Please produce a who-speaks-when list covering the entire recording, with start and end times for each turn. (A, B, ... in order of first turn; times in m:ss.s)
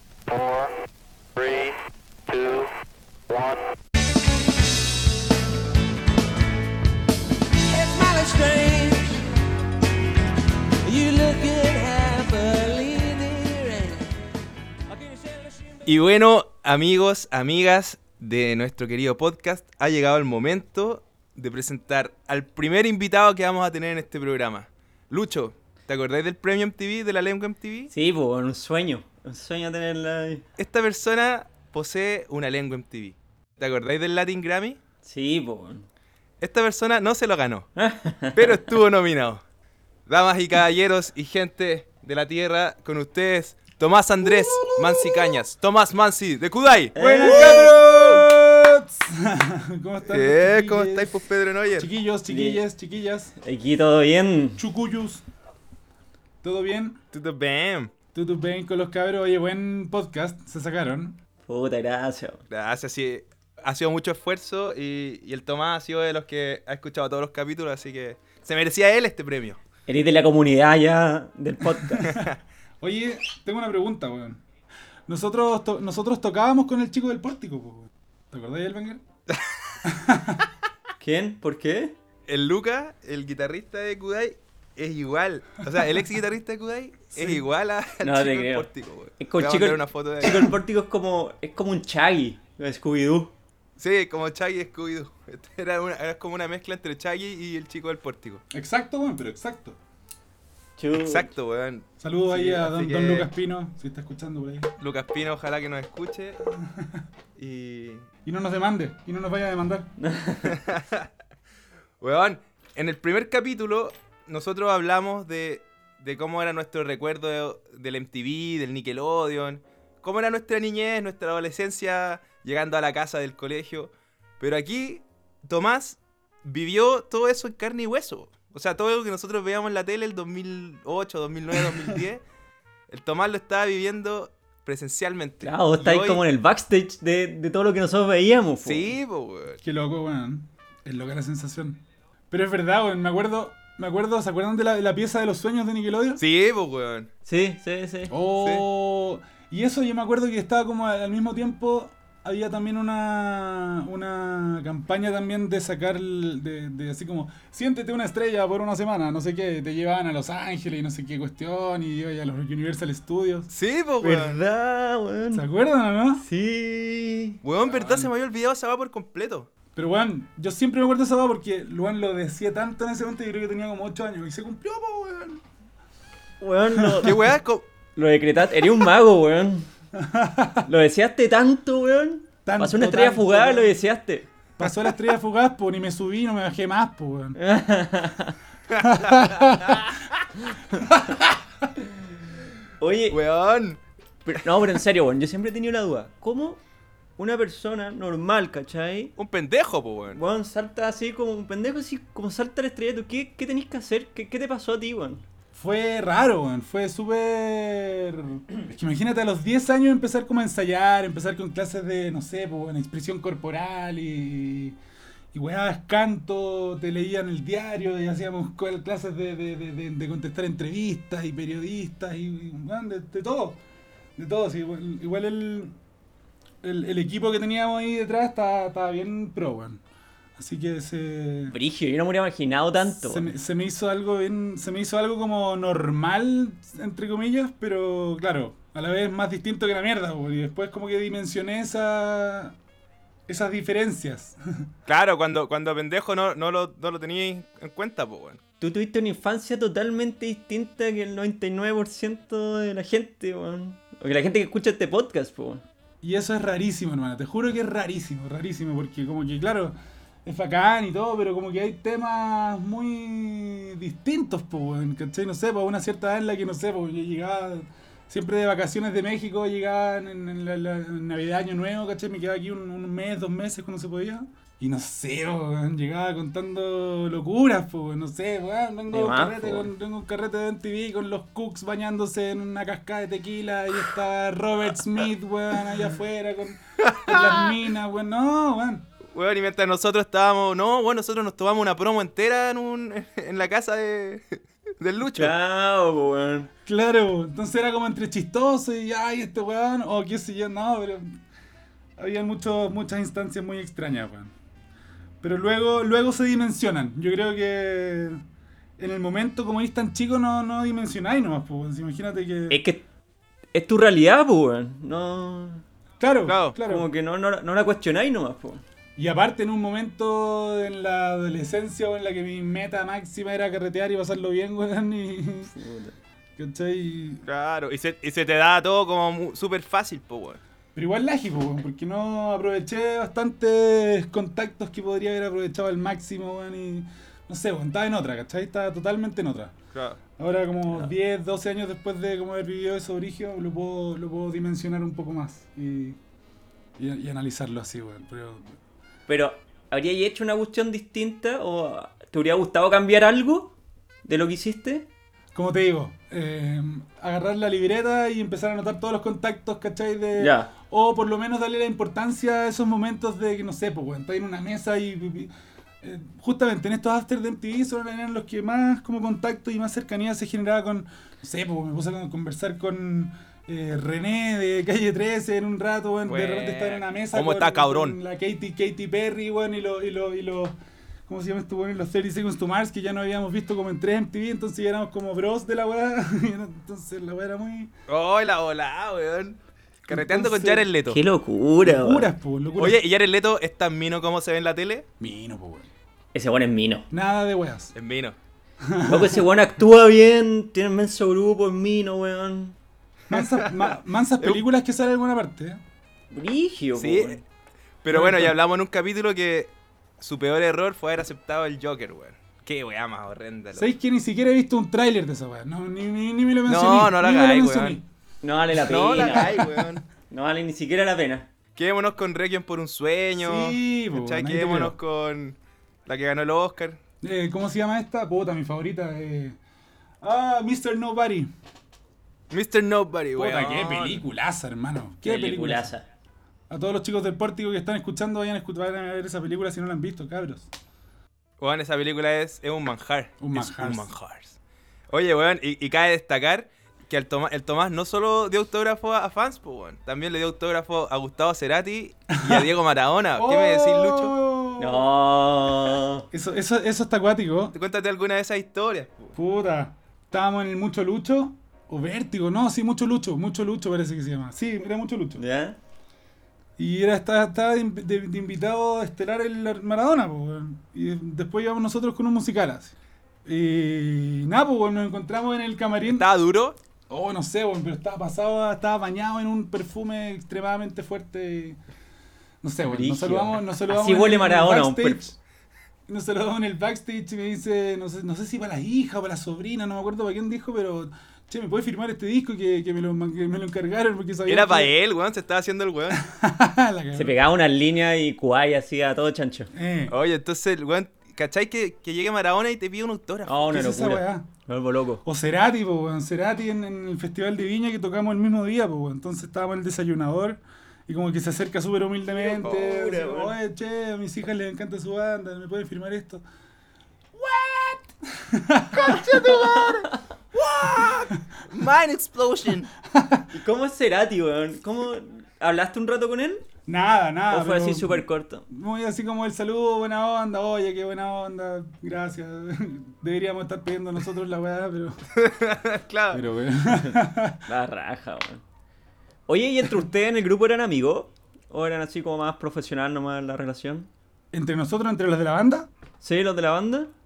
0:00.3-0:00.7 A
0:01.4-0:02.7 A
0:03.3-0:03.6 A
0:07.7-0:09.3 B
0:10.8-0:14.1 B
0:14.9-0:15.8 B
0:15.8-0:27.9 C
0:27.9-0:30.4 D
0:30.6-0:34.8 C
0:35.0-0:35.9 D
0:36.4-0:37.7 C
0:37.8-0:38.5 D
0:38.3-0:39.4 C
0:40.1-0:47.8 C
0:44.2-0:45.2 E
0:46.9-0:47.8 D
0:47.0-0:51.2 E
0:50.1-0:51.9 C
0:51.8-0:53.3 E
0:52.3-0:52.6 D
0:53.4-0:54.6 D
0:54.6-0:55.2 E
0:56.4-0:57.0 E
0:57.1-0:57.9 C
0:58.1-1:01.2 E
1:01.5-1:02.4 D
1:02.5-1:09.6 C
1:09.9-1:12.1 D
1:11.6-1:14.4 E
1:15.1-1:19.0 E
1:19.8-1:20.4 E
1:21.0-1:22.0 D
1:22.3-1:30.5 C
1:27.1-1:27.4 E
1:28.0-1:33.3 D
1:33.8-1:38.4 C
1:38.5-1:39.8 E
1:40.8-1:41.3 D
1:40.9-1:43.3 C
1:42.0-1:44.7 E
1:44.8-1:46.4 C
1:46.5-1:47.0 E
1:47.4-1:48.1 C
1:48.2-1:49.9 E
1:50.0-1:50.6 D
1:50.4-1:51.1 C
1:52.0-2:12.2 C
2:12.9-2:16.2 C
2:15.4-2:18.9 D
2:18.6-2:19.6 C
2:19.6-2:26.2 E
2:26.2-2:27.1 C
2:27.3-2:28.1 D
2:28.1-2:43.5 E
2:28.4-2:28.6 C
2:43.5-2:44.4 C
2:44.0-2:45.4 D
2:45.3-2:46.2 E
2:46.2-2:47.4 D
2:47.4-2:49.5 C
2:47.6-2:48.1 E
2:49.8-2:55.4 E
2:56.4-2:57.1 D
2:56.7-2:57.1 E
2:57.0-2:57.6 C
2:58.0-2:59.7 D
2:59.9-3:00.7 E
3:00.6-3:04.3 D
3:02.4-3:03.8 E
3:04.6-3:07.4 E
3:07.4-3:08.4 D
3:08.7-3:09.4 C
3:08.8-3:09.8 E
3:10.7-3:11.3 E
3:12.8-3:13.2 D
3:13.1-3:13.8 C
3:14.2-3:16.6 D
3:17.2-3:19.1 D
3:19.2-3:20.2 C
3:20.1-3:25.2 D
3:25.5-3:34.8 E
3:35.3-3:43.6 E
3:44.2-3:45.8 E
3:46.6-3:49.8 E
3:50.4-3:51.5 E
3:51.5-3:53.3 D
3:52.8-4:02.6 E
4:03.3-4:04.7 E
4:04.9-4:08.4 C
4:08.6-4:15.6 D
4:16.0-4:48.9 E
4:38.9-4:39.7 D
4:46.8-4:47.5 C
4:49.1-4:55.3 C
4:55.1-4:56.5 D
4:56.6-5:01.2 E
5:02.0-5:04.3 E
5:05.2-5:08.2 E
5:08.8-5:12.6 E
5:12.5-5:12.8 D
5:13.5-5:15.6 D
5:16.0-5:16.9 E
5:16.2-5:16.6 C
5:16.6-5:18.6 D
5:19.0-5:25.5 E
5:25.5-5:26.0 D
5:26.4-5:27.2 E
5:27.2-5:30.4 C
5:30.7-5:39.5 E
5:39.7-5:40.0 C
5:40.2-5:46.0 E
5:46.8-5:48.5 E
5:49.1-5:53.5 D
5:54.0-5:54.9 D
5:55.3-6:20.6 E
6:00.2-6:00.5 D
6:16.0-6:18.0 C
6:21.1-6:27.7 E
6:27.9-6:31.0 C
6:29.9-6:30.7 E
6:30.9-6:32.1 D
6:31.6-6:32.8 E
6:32.6-6:34.8 C
6:35.0-6:35.7 E
6:36.1-6:36.9 D
6:36.9-6:37.7 E
6:37.7-6:38.2 C
6:38.6-6:39.2 E
6:38.8-6:42.6 D
6:43.1-6:45.6 E
6:43.1-6:44.4 C
6:46.1-6:47.2 D
6:46.8-6:47.2 C
6:47.8-6:53.7 C
6:47.9-6:48.4 E
6:53.5-6:57.8 E
6:56.5-6:57.8 C
6:58.2-6:59.4 D
6:58.5-6:59.8 C
6:58.9-6:59.6 E
7:00.1-7:01.3 D
7:01.6-7:06.8 C
7:03.2-7:04.7 E
7:07.0-7:09.4 E
7:10.0-7:11.3 E
7:12.3-7:14.0 C
7:13.1-7:15.7 E
7:15.0-7:15.8 D
7:16.5-7:20.5 E
7:21.4-7:24.4 C
7:23.2-7:23.9 E
7:24.9-7:34.2 C
7:32.1-7:32.5 E
7:33.2-7:34.8 E
7:34.6-7:36.1 D
7:36.1-7:37.5 E
7:37.5-7:39.1 C
7:39.1-7:45.2 E
7:45.2-7:45.6 D
7:46.6-7:56.1 E
7:55.9-7:56.6 C
7:56.9-8:01.6 E
8:02.4-8:05.2 E
8:02.7-8:05.1 D
8:05.9-8:14.7 E
8:14.2-8:16.0 C
8:15.9-8:17.1 E
8:16.9-8:19.5 D
8:19.5-8:19.9 E
8:19.9-8:23.4 C
8:23.2-8:25.0 D
8:23.4-8:24.3 E
8:25.0-8:36.2 E
8:32.1-8:33.4 D
8:37.1-8:39.1 E
8:38.7-8:42.7 C
8:38.8-8:40.0 D
8:40.3-8:41.1 E
8:42.9-8:43.3 E
8:43.3-8:46.4 D
8:46.7-8:55.0 E
8:47.3-8:48.4 D
8:55.2-8:56.2 C
8:56.1-8:57.4 E
8:57.4-8:58.4 D
8:59.3-9:03.9 D
9:04.3-9:05.7 E
9:06.0-9:06.9 D